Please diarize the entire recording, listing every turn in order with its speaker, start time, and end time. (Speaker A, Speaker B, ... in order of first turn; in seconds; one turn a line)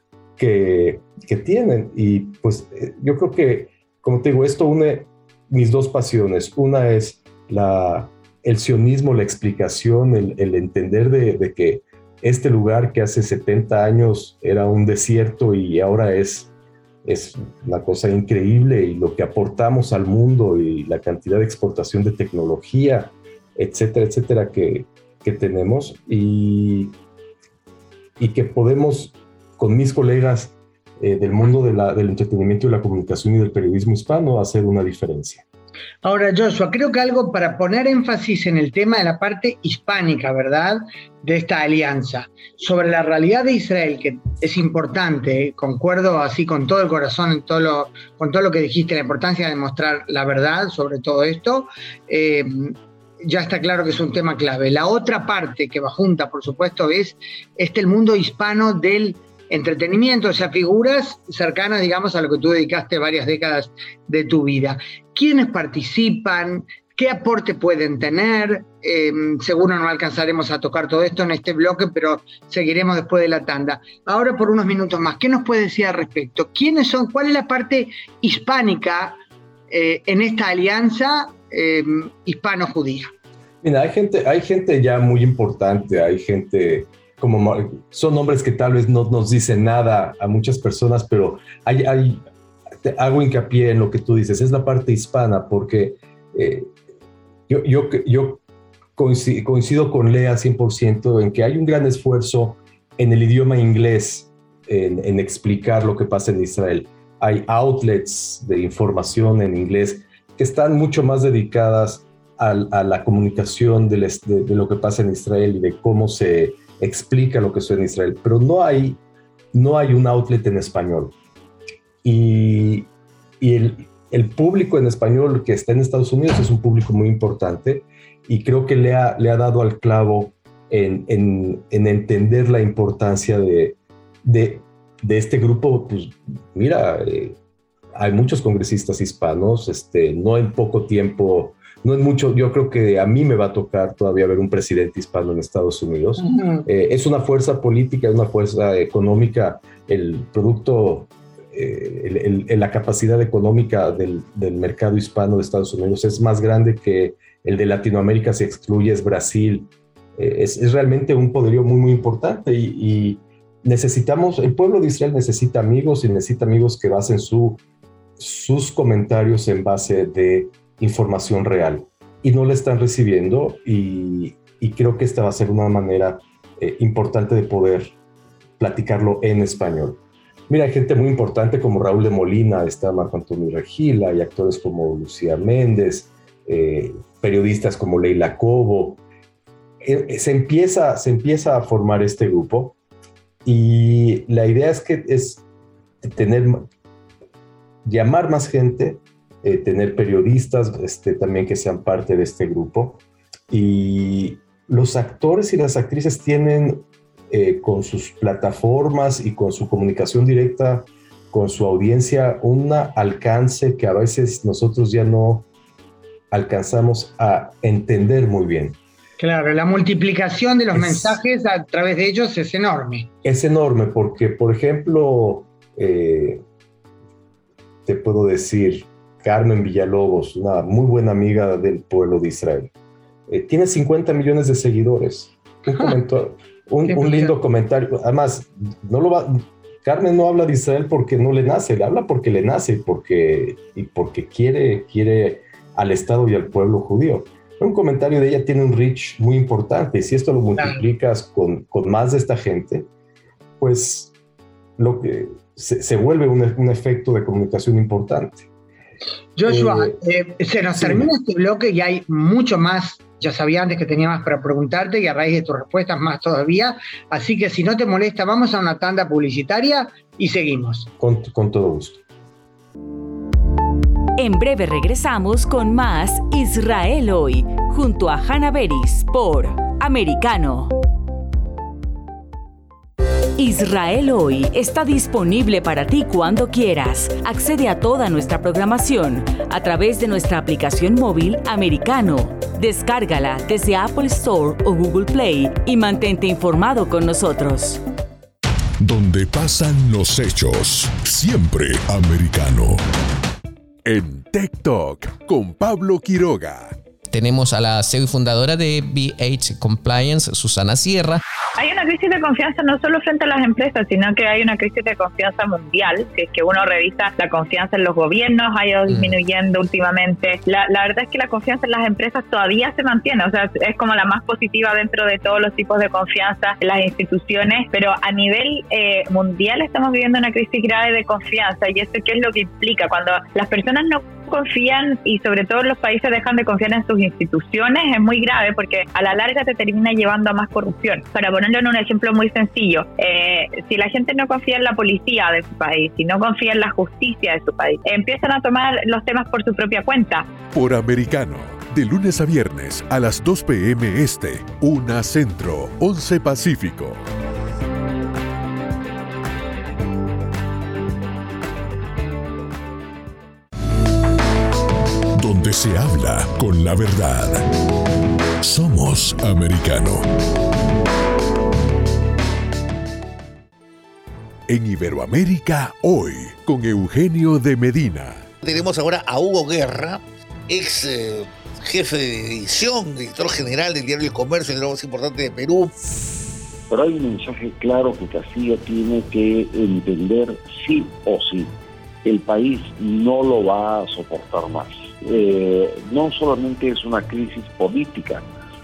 Speaker A: 0.4-16.5
Speaker A: 17.0-26.9
Speaker A: 28.2-35.4
Speaker B: 36.0-79.2
Speaker B: 79.7-83.1
Speaker A: 83.6-92.2
Speaker A: 92.8-96.7
Speaker A: 97.5-98.4
Speaker A: 99.0-119.0
Speaker A: 119.5-121.1
Speaker A: 122.0-122.9
Speaker A: 123.4-137.4
Speaker A: 137.9-167.6
Speaker B: 146.2-146.7
Speaker A: 168.2-177.9
Speaker A: 178.6-189.0
Speaker A: 189.8-192.8
Speaker A: 193.4-195.4
Speaker A: 196.0-196.6
Speaker A: 197.8-215.5
Speaker A: 216.3-218.8
Speaker B: 219.2-223.1
Speaker A: 220.7-221.2
Speaker A: 223.2-226.4
Speaker A: 227.8-232.7
Speaker A: 233.3-252.9
Speaker B: 236.9-237.3
Speaker A: 253.6-254.1
Speaker A: 254.8-258.5
Speaker B: 259.4-270.9
Speaker A: 259.4-260.0
Speaker A: 260.7-261.1
Speaker A: 271.0-272.0
Speaker C: 274.2-280.7
Speaker C: 283.4-297.8
Speaker D: 298.8-302.8
Speaker D: 303.8-306.8
Speaker E: 307.1-311.2
Speaker F: 311.6-350.3
Speaker D: 350.5-357.0
Speaker D: 365.1-367.5
Speaker D: 368.4-370.1
Speaker D: 374.5-378.3
Speaker G: 378.4-385.7
Speaker H: 386.7-391.5
Speaker H: 392.0-398.2